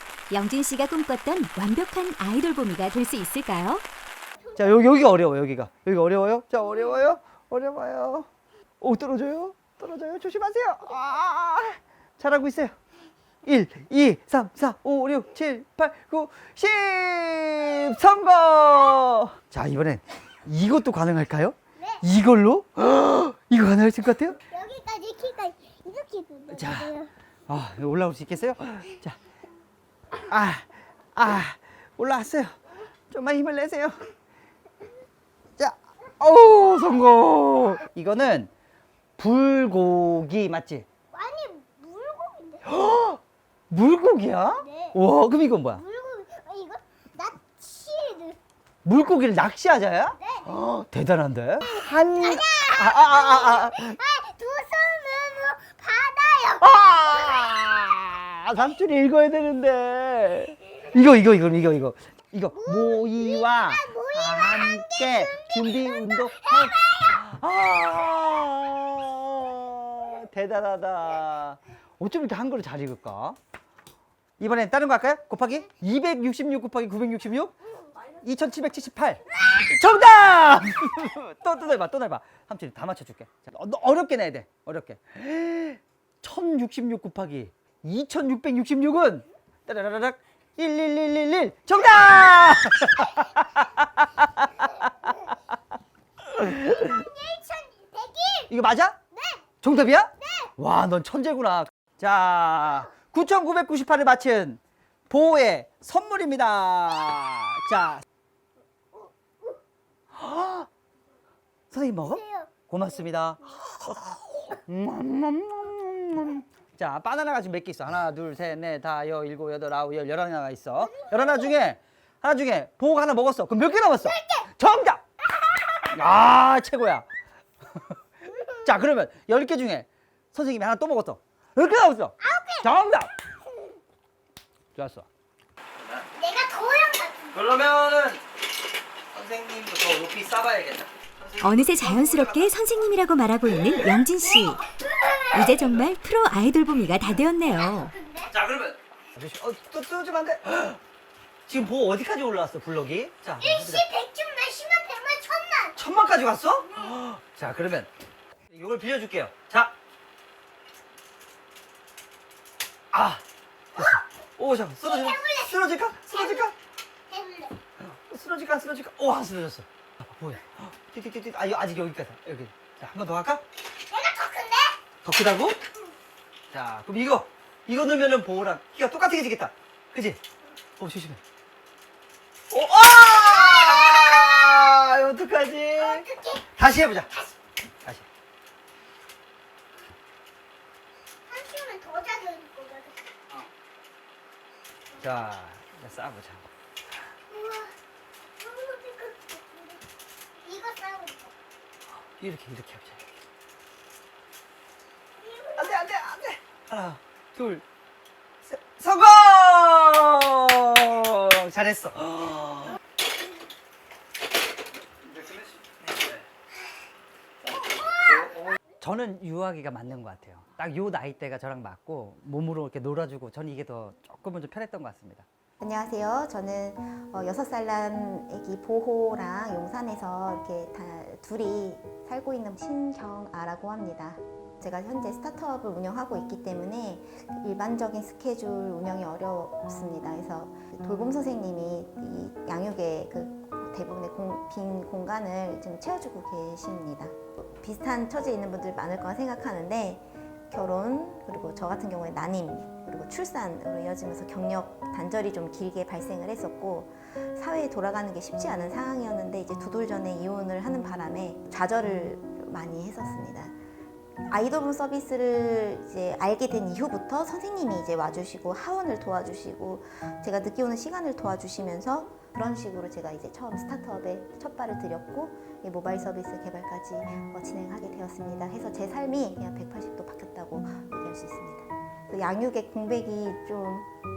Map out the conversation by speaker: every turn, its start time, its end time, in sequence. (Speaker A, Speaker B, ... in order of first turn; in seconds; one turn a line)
Speaker A: 0.3-3.9
Speaker B: 4.5-8.3
Speaker B: 8.8-12.8
Speaker B: 13.4-24.4
Speaker C: 24.5-27.1
Speaker B: 26.5-26.9
Speaker B: 27.5-29.2
Speaker B: 30.3-32.6
Speaker B: 33.1-34.1
Speaker B: 35.6-38.5
Speaker B: 39.2-40.9
Speaker C: 41.1-42.7
Speaker B: 42.7-45.9
Speaker C: 44.7-44.9
Speaker C: 45.8-48.4
Speaker B: 48.8-54.0
Speaker C: 51.7-57.3
Speaker B: 56.6-73.4
Speaker C: 62.6-67.1
Speaker B: 74.4-95.1
Speaker B: 96.3-96.8
Speaker C: 96.7-98.5
Speaker B: 98.5-99.0
Speaker C: 99.2-99.4
Speaker B: 99.6-108.0
Speaker C: 100.2-100.5
Speaker B: 110.1-110.7
Speaker B: 111.7-125.0
Speaker C: 124.1-124.5
Speaker B: 125.8-127.1
Speaker B: 128.5-133.2
Speaker C: 132.2-132.7
Speaker B: 134.8-135.1
Speaker C: 136.2-137.4
Speaker B: 137.3-138.2
Speaker B: 139.1-142.5
Speaker A: 141.4-144.7
Speaker A: 145.3-148.0
Speaker C: 147.9-148.3
Speaker B: 148.3-150.8
Speaker B: 151.5-153.9
Speaker C: 153.4-155.8
Speaker B: 155.8-157.9
Speaker B: 158.5-159.7
Speaker B: 162.9-163.2
Speaker B: 163.8-166.5
Speaker C: 164.8-166.5
Speaker C: 167.1-167.6
Speaker B: 167.8-173.4
Speaker C: 173.9-174.8
Speaker B: 175.0-175.6
Speaker B: 176.5-180.2
Speaker B: 180.8-181.2
Speaker B: 182.5-187.1
Speaker C: 185.9-186.4
Speaker C: 191.3-193.2
Speaker B: 195.0-196.5
Speaker C: 197.3-197.7
Speaker C: 198.4-199.8
Speaker C: 200.4-201.3
Speaker B: 202.2-203.0
Speaker C: 205.2-205.8
Speaker B: 205.5-207.6
Speaker B: 208.4-212.8
Speaker B: 215.2-215.4
Speaker B: 218.8-225.3
Speaker D: 225.6-263.6
Speaker D: 264.3-283.9